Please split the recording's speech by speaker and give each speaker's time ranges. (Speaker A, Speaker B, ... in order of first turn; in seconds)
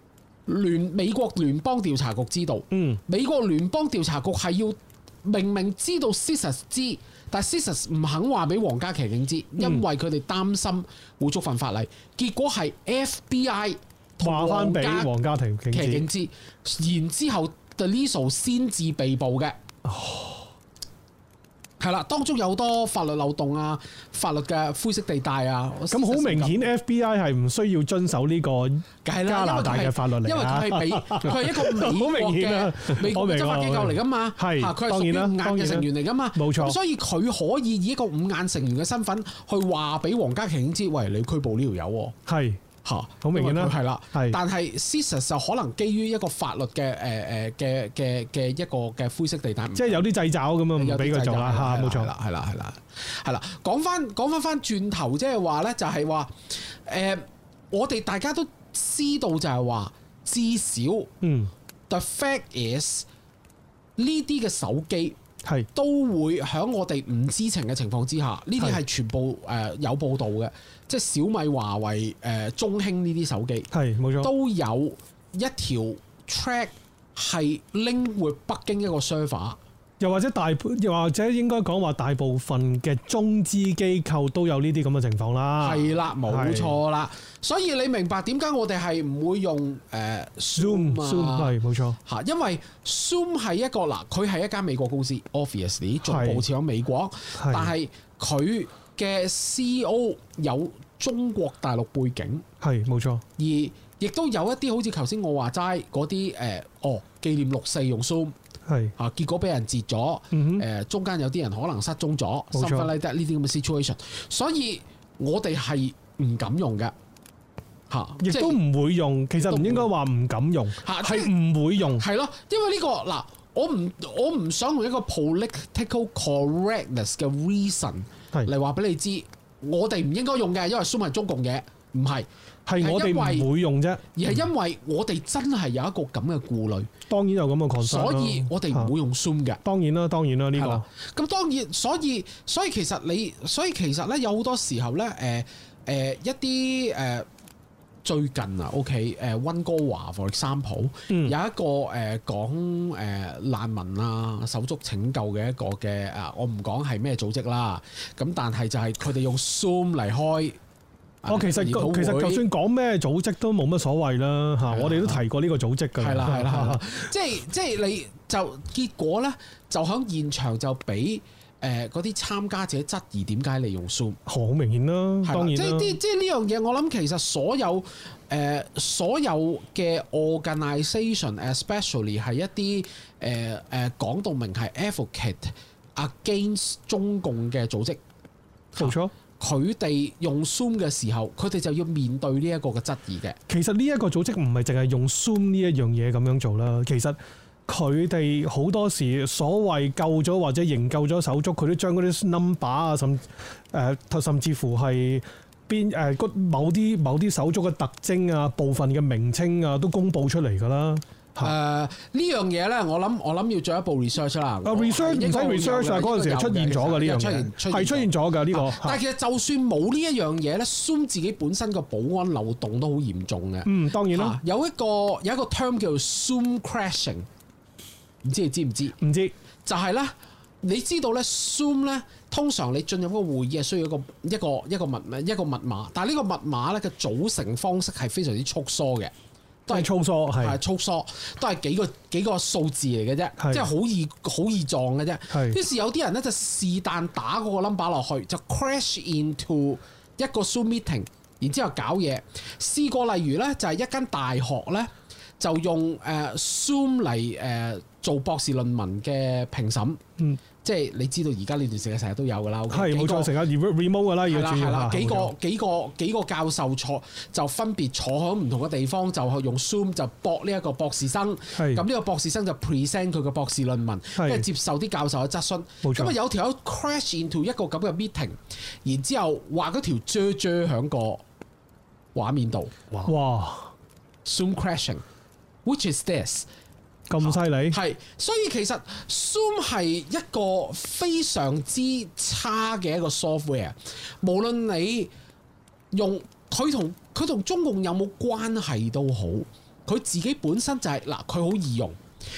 Speaker A: 0.5-15.1, 15.7-19.6, 21.8-26.6, 29.0-42.1, 42.8-50.1, 50.8-61.1, 61.9-63.0, 64.0-65.2, 65.7-79.6, 85.6-102.4, 103.4-108.3, 109.0-116.9, 117.9-118.6, 119.4-119.9, 120.8-121.3, 122.0-132.3, 132.8-133.5, 134.1-136.9, 137.8-139.6, 140.6-147.3, 148.0-160.6, 161.2-162.4, 164.7-165.2, 166.0-174.2, 175.2-188.0, 188.7-193.4, 211.4-227.3, 228.2-229.0, 229.7-239.1, 239.7-260.0, 260.6-263.3, 264.3-281.2, 282.1-282.7, 284.2-285.0, 285.6-286.4, 287.2-295.1, 295.9-302.0
Speaker B: 2.7-3.0, 14.2-16.0, 19.9-20.4, 25.9-36.8, 42.3-42.6, 43.2-44.4, 49.8-52.1, 61.2-61.5, 73.7-74.3, 80.0-86.8, 90.6-92.0, 96.0-96.4, 97.4-97.7, 102.6-103.2, 108.7-108.9, 110.3-110.6, 112.5-112.9, 118.2-122.0, 132.7-134.4, 137.1-138.9, 139.6-140.8, 151.1-151.3, 161.3-167.1, 174.2-175.9, 188.8-189.1, 193.5-211.5, 214.6-219.0, 223.7-224.4, 229.0-229.3, 239.7-240.6, 243.4-243.7, 245.3-245.6, 262.7-265.3, 271.5-271.8, 274.2-274.4, 275.8-276.1, 283.0-283.7, 287.1-287.8